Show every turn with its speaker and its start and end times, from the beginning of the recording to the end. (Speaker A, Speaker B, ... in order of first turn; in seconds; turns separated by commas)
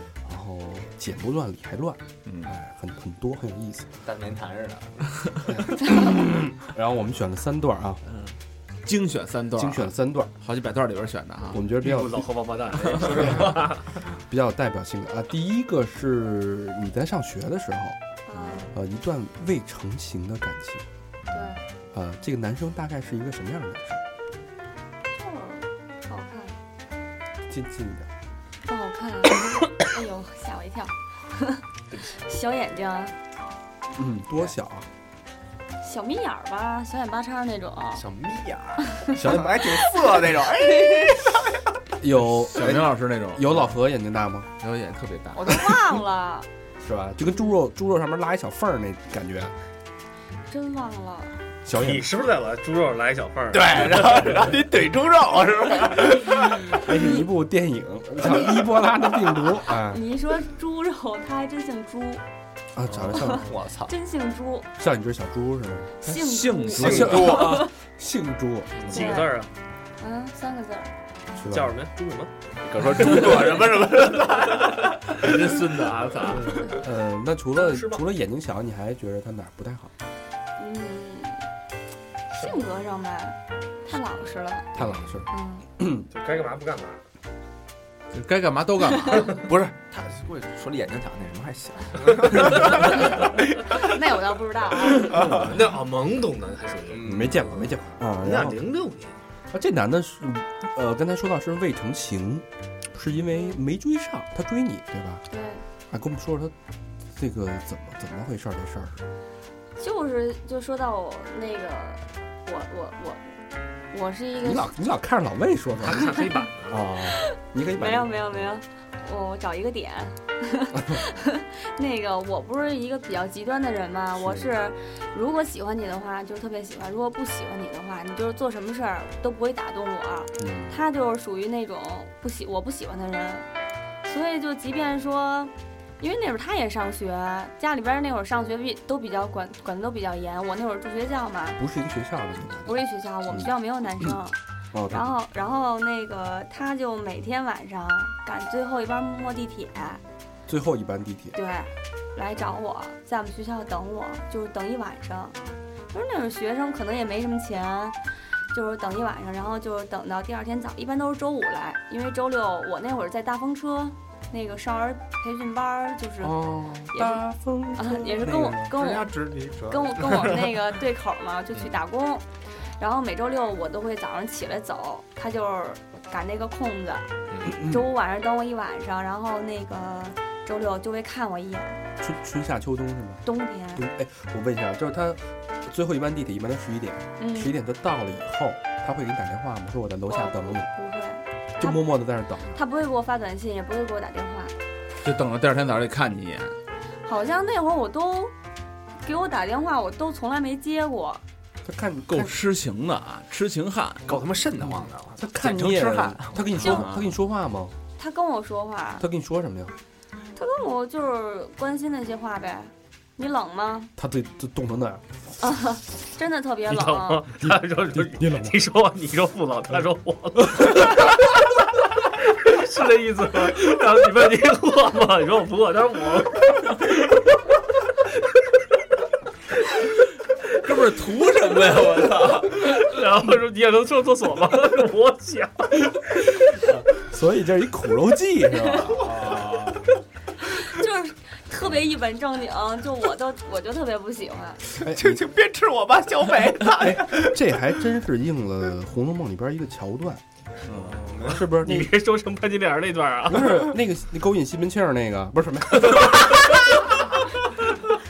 Speaker A: 0.2-4.0, Speaker B: 2.2-2.5, Speaker C: 4.0-5.9, Speaker A: 5.5-8.0, Speaker B: 8.8-11.6, Speaker A: 9.6-10.3, Speaker A: 11.5-12.3, Speaker D: 11.8-13.8, Speaker C: 12.8-13.7, Speaker A: 13.2-13.5, Speaker A: 14.2-18.0, Speaker E: 18.3-18.7, Speaker A: 18.7-20.9, Speaker E: 21.3-21.6, Speaker A: 21.9-24.0, Speaker E: 25.1-26.6, Speaker A: 27.5-28.1, Speaker E: 28.7-33.1, Speaker A: 34.0-34.9, Speaker E: 35.8-38.0, Speaker C: 38.0-41.7, Speaker A: 39.1-39.8, Speaker A: 42.0-44.5, Speaker B: 42.2-43.8, Speaker B: 44.6-45.7, Speaker E: 45.3-46.5, Speaker A: 46.8-49.5, Speaker E: 50.5-51.4, Speaker A: 51.7-52.1, Speaker D: 51.7-54.2, Speaker C: 53.5-56.9, Speaker A: 56.6-60.1, Speaker E: 59.8-62.2, Speaker A: 62.8-63.5, Speaker C: 63.0-63.9, Speaker E: 63.2-64.7, Speaker A: 64.8-66.1, Speaker E: 66.0-67.7, Speaker B: 66.1-67.5, Speaker C: 66.7-67.6, Speaker A: 66.8-69.0, Speaker C: 68.8-69.1, Speaker D: 68.9-69.5, Speaker E: 68.9-69.3, Speaker E: 70.0-70.9, Speaker A: 71.4-71.8, Speaker D: 71.5-72.3, Speaker C: 72.6-75.3, Speaker B: 73.1-73.4, Speaker B: 75.1-76.5, Speaker C: 76.3-76.6, Speaker A: 76.7-79.9, Speaker D: 77.6-78.0, Speaker E: 80.6-81.4, Speaker D: 82.3-82.6, Speaker E: 82.4-84.7, Speaker A: 84.8-86.1, Speaker C: 84.8-85.0, Speaker E: 85.3-85.7, Speaker D: 86.1-87.0, Speaker B: 88.1-89.4, Speaker C: 89.3-93.9, Speaker E: 93.6-95.2, Speaker C: 95.0-95.6, Speaker D: 95.1-99.2, Speaker C: 96.9-97.8, Speaker A: 97.0-98.6, Speaker A: 99.5-105.2, Speaker E: 105.3-105.6, Speaker A: 105.9-106.5, Speaker A: 107.1-109.0, Speaker E: 109.8-113.2, Speaker E: 113.9-114.7, Speaker A: 114.4-118.3, Speaker D: 115.8-116.9, Speaker E: 117.1-133.4, Speaker A: 124.2-124.5, Speaker A: 130.4-130.8, Speaker E: 134.1-141.6, Speaker A: 141.6-143.5, Speaker E: 142.6-144.4, Speaker A: 144.7-145.1, Speaker E: 144.9-150.0, Speaker A: 150.5-151.4, Speaker E: 151.3-155.4, Speaker E: 155.9-158.0, Speaker E: 158.5-167.2, Speaker A: 166.2-168.7, Speaker E: 167.8-169.1, Speaker C: 168.7-170.6, Speaker E: 169.7-172.2, Speaker E: 172.8-181.8, Speaker C: 177.3-177.6, Speaker A: 177.4-177.9, Speaker A: 182.0-183.2, Speaker E: 183.2-183.8, Speaker A: 183.8-190.7, Speaker E: 187.2-187.5, Speaker E: 190.1-191.8, Speaker A: 191.6-192.6, Speaker E: 192.5-194.5, Speaker B: 195.0-196.6, Speaker E: 197.1-198.3, Speaker E: 199.0-201.2, Speaker A: 201.6-202.4, Speaker B: 202.1-204.2, Speaker C: 204.1-206.4, Speaker A: 205.2-207.8, Speaker B: 206.6-207.2, Speaker E: 208.0-209.1, Speaker A: 209.0-209.8, Speaker E: 210.4-213.9, Speaker A: 213.9-215.1, Speaker E: 215.4-217.2, Speaker D: 216.7-221.4, Speaker A: 217.4-218.6, Speaker D: 222.0-226.9, Speaker B: 230.5-232.6, Speaker D: 232.4-235.9, Speaker A: 236.5-239.3, Speaker E: 238.5-239.0, Speaker B: 239.0-239.9, Speaker E: 240.5-244.6, Speaker C: 244.8-247.4, Speaker A: 244.8-245.2, Speaker A: 246.8-250.2, Speaker B: 250.7-251.0, Speaker C: 250.7-251.5, Speaker A: 251.2-251.9, Speaker D: 251.6-253.7, Speaker A: 253.2-256.6